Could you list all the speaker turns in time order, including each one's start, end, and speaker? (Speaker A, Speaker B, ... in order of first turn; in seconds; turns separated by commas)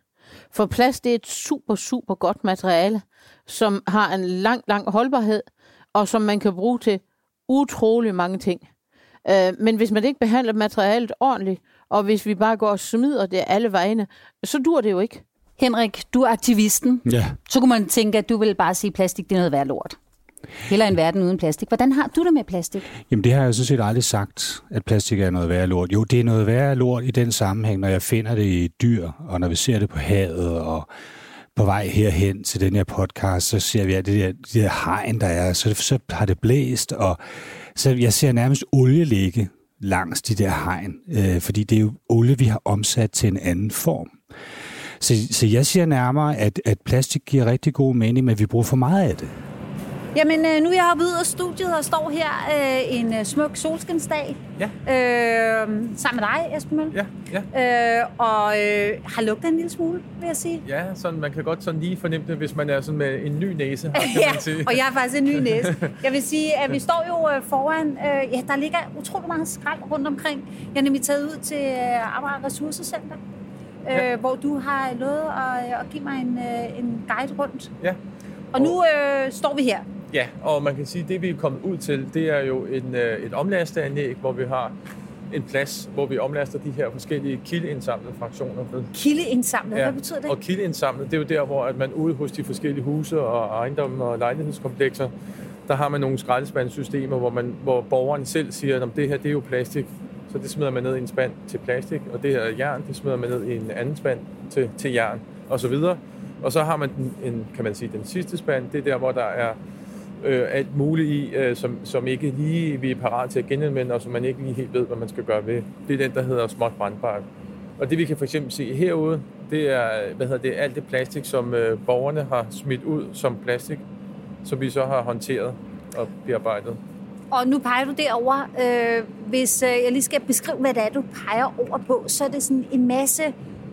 Speaker A: 0.5-8.7, Speaker A: 9.2-15.2, Speaker B: 15.6-20.0, Speaker C: 17.1-17.4, Speaker B: 20.7-22.9, Speaker C: 23.1-30.9, Speaker C: 31.6-37.2, Speaker C: 37.8-44.1, Speaker C: 45.0-49.3, Speaker B: 50.1-57.0, Speaker D: 56.9-57.5, Speaker B: 57.5-60.6, Speaker D: 60.6-64.8, Speaker B: 63.9-73.2, Speaker D: 65.3-65.9, Speaker B: 73.8-77.7, Speaker B: 78.5-79.8, Speaker D: 80.1-84.7, Speaker D: 85.3-88.9, Speaker B: 88.9-90.3, Speaker D: 89.7-95.1, Speaker D: 95.7-109.6, Speaker D: 110.2-117.2, Speaker D: 117.8-123.8, Speaker D: 124.4-126.8, Speaker B: 127.3-133.3